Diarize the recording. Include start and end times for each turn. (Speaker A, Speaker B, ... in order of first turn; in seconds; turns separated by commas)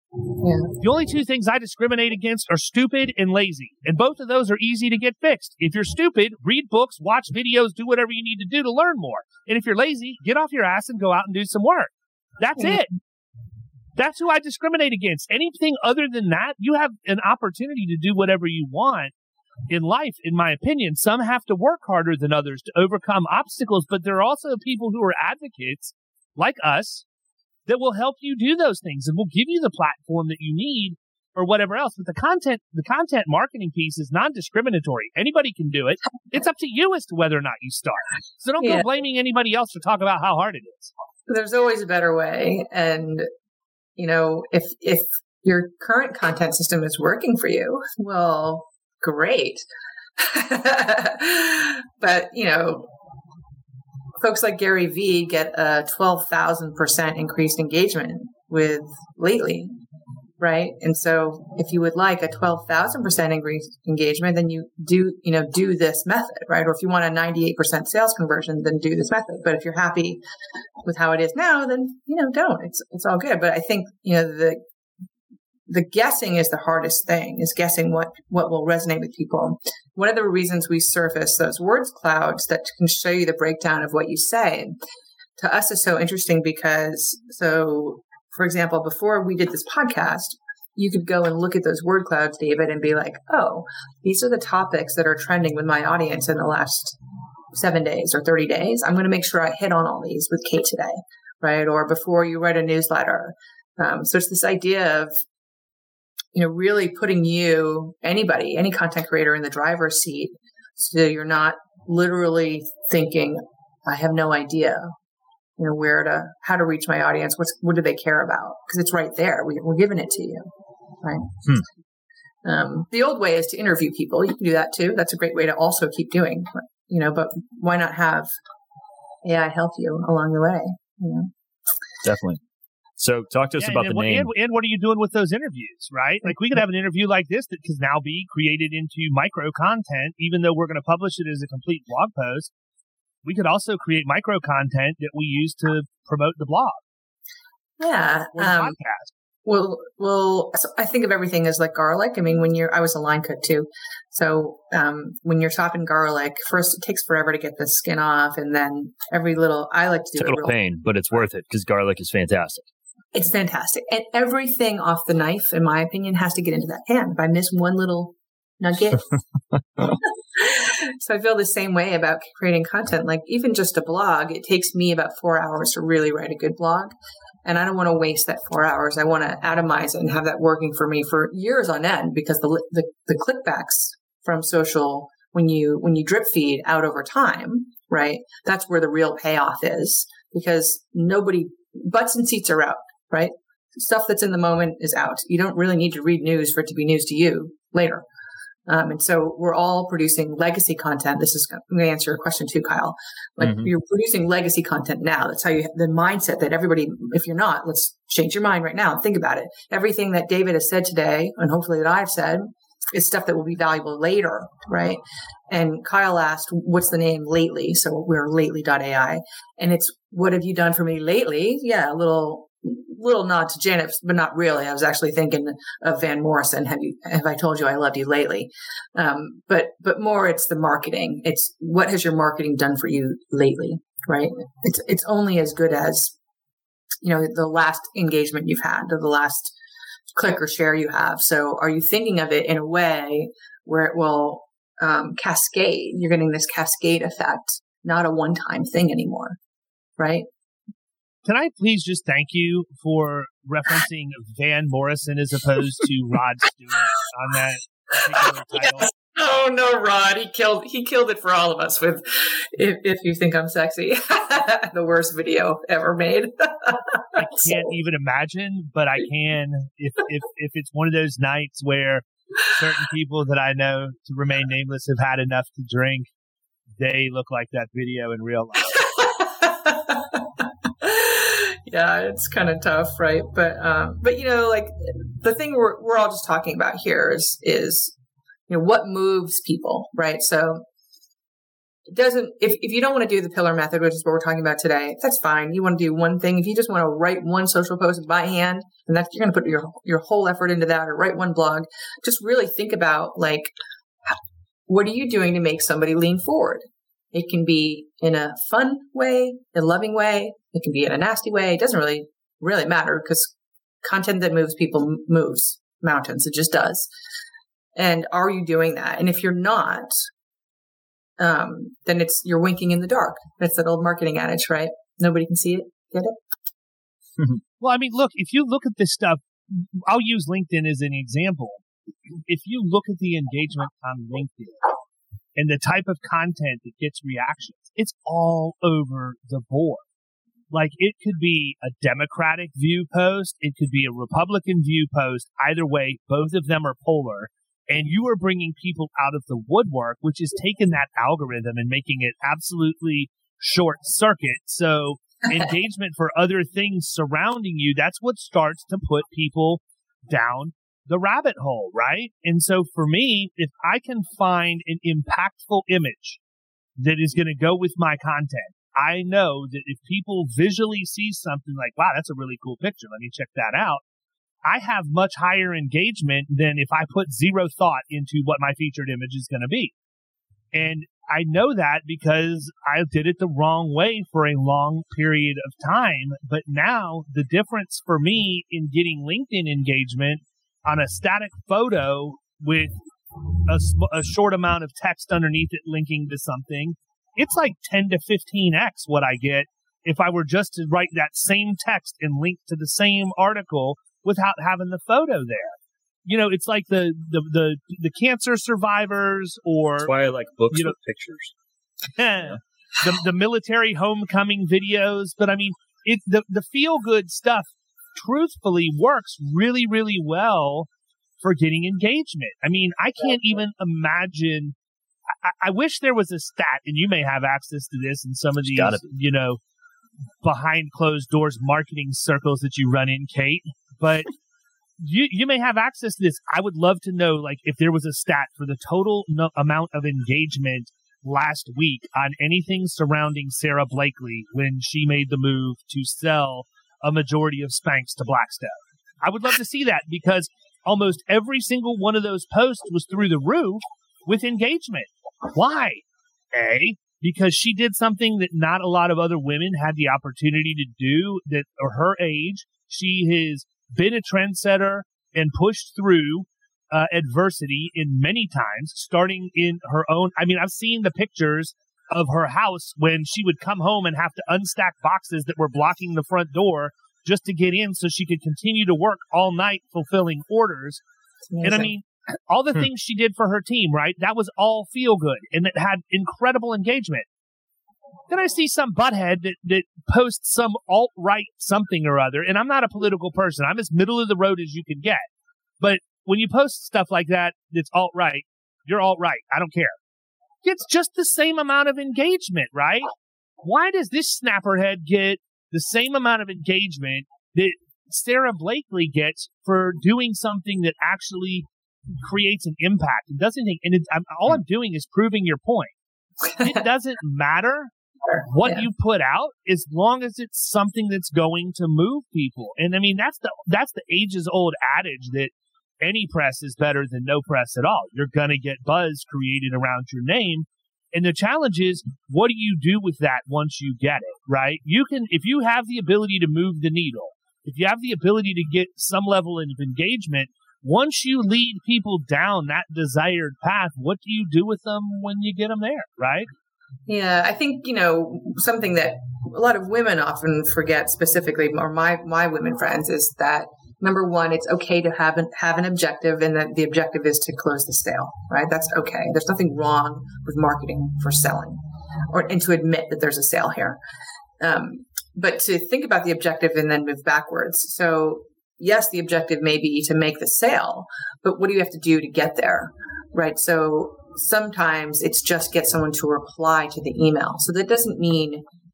Speaker A: 0.4-0.7, Speaker B: 0.8-12.9, Speaker B: 13.9-19.1, Speaker B: 19.7-27.1, Speaker B: 27.7-40.9, Speaker A: 41.3-43.3, Speaker A: 44.0-49.6, Speaker A: 50.2-52.9, Speaker A: 54.2-59.7, Speaker A: 60.4-70.2, Speaker A: 70.8-74.6, Speaker A: 75.7-84.7, Speaker A: 85.4-97.0, Speaker A: 97.5-105.1, Speaker A: 106.3-114.9, Speaker A: 115.6-120.5, Speaker A: 121.0-121.4, Speaker A: 122.4-128.3, Speaker A: 129.2-131.3, Speaker C: 132.0-132.4, Speaker C: 133.0-134.3, Speaker B: 133.6-142.5, Speaker B: 143.2-146.8, Speaker A: 147.8-148.7, Speaker B: 148.3-149.1, Speaker A: 149.4-160.5, Speaker C: 160.2-162.7, Speaker A: 163.1-169.1, Speaker A: 169.8-176.9, Speaker A: 177.4-198.0, Speaker A: 198.7-236.1, Speaker C: 203.4-203.7, Speaker A: 237.0-239.5, Speaker A: 240.1-249.4, Speaker A: 250.0-250.3, Speaker B: 251.2-258.9, Speaker A: 258.8-267.6, Speaker B: 267.1-276.1, Speaker B: 276.8-278.8, Speaker A: 278.7-287.9, Speaker A: 288.5-290.6, Speaker A: 291.9-303.5, Speaker A: 304.0-316.9, Speaker A: 317.8-320.0, Speaker A: 321.2-326.1, Speaker B: 327.6-331.6, Speaker B: 332.3-334.7, Speaker B: 335.4-339.8, Speaker B: 340.5-366.2, Speaker B: 366.8-373.8, Speaker B: 374.4-379.7, Speaker B: 380.5-392.7, Speaker B: 393.4-409.9, Speaker C: 409.8-411.3, Speaker B: 411.9-420.7, Speaker B: 421.2-424.5, Speaker B: 425.2-429.4, Speaker C: 428.5-428.9, Speaker B: 430.2-434.1, Speaker B: 434.8-480.8, Speaker A: 481.3-481.7, Speaker B: 481.4-487.1, Speaker B: 488.1-495.0, Speaker B: 495.6-499.8, Speaker B: 500.4-511.5, Speaker B: 512.0-515.7, Speaker B: 516.4-517.7, Speaker A: 518.1-518.6, Speaker B: 518.2-546.3, Speaker A: 546.9-563.8, Speaker A: 564.4-578.4